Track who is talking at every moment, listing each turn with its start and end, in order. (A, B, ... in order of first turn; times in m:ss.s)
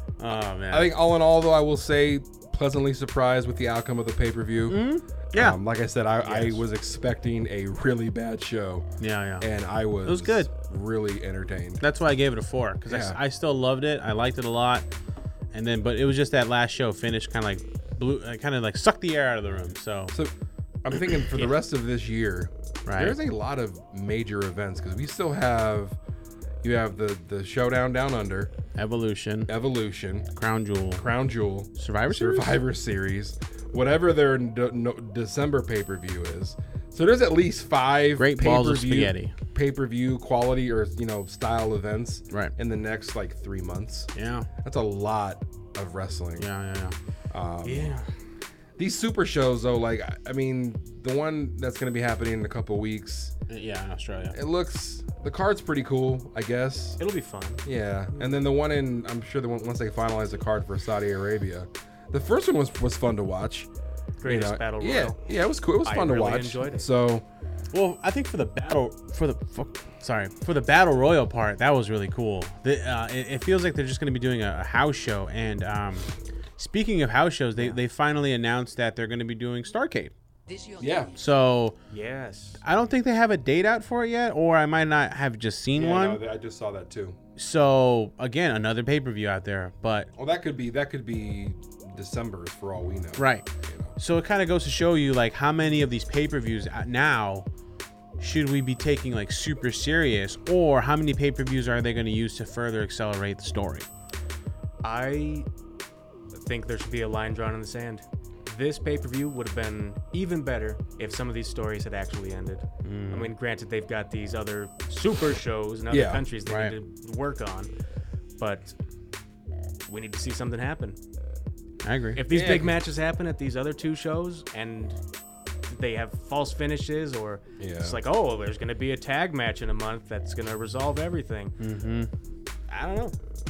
0:00.2-0:00.9 A
0:00.7-0:08.9 B
0:04.7-0:05.6 A
0:06.2-0:06.5 C
0:09.0-0:09.5 A
0:09.4-0:11.8 B
0:10.0-0:10.5 A
0:11.8-0:14.8 A
0:12.9-0:13.2 B
0:15.5-0:20.1 A
0:20.1-0:26.0 B
0:21.3-0:21.5 A
0:22.8-0:23.2 A
0:26.6-0:28.5 B
0:28.8-0:29.5 A
0:29.5-0:30.3 B
0:30.4-0:31.0 A
0:31.0-0:44.1 B
0:31.8-0:32.6 A
0:38.2-0:39.3 A
0:44.1-0:44.5 A
0:44.6-0:46.5 B
0:46.4-0:47.0 A
0:47.3-0:48.0 B
0:47.6-0:48.1 A
0:48.8-0:53.3 B
0:53.5-0:54.4 A
0:54.3-0:57.0 B
0:57.0-0:57.6 C
0:57.6-1:03.7 B
1:04.2-1:05.2 C
1:04.2-1:07.2 B
1:05.8-1:06.8 C
1:07.7-1:20.1 A
1:20.7-1:21.1 B
1:21.2-1:21.8 A
1:21.9-1:22.6 C
1:22.6-1:26.2 A
1:25.7-1:27.2 B
1:27.4-1:30.1 A
1:30.2-1:34.0 B
1:33.2-1:33.4 A
1:34.0-1:37.4 A
1:38.2-1:43.9 A
1:44.8-1:45.5 C
1:46.3-1:57.7 C
1:52.8-1:53.3 A
1:55.9-1:56.2 B
1:56.4-1:56.7 A
1:58.4-1:58.8 C
1:59.9-2:01.0 C
2:01.8-2:02.2 A
2:02.1-2:05.0 C
2:02.3-2:02.8 B
2:05.7-2:11.5 C
2:07.6-2:08.0 B
2:11.6-2:12.1 A
2:12.7-2:13.2 C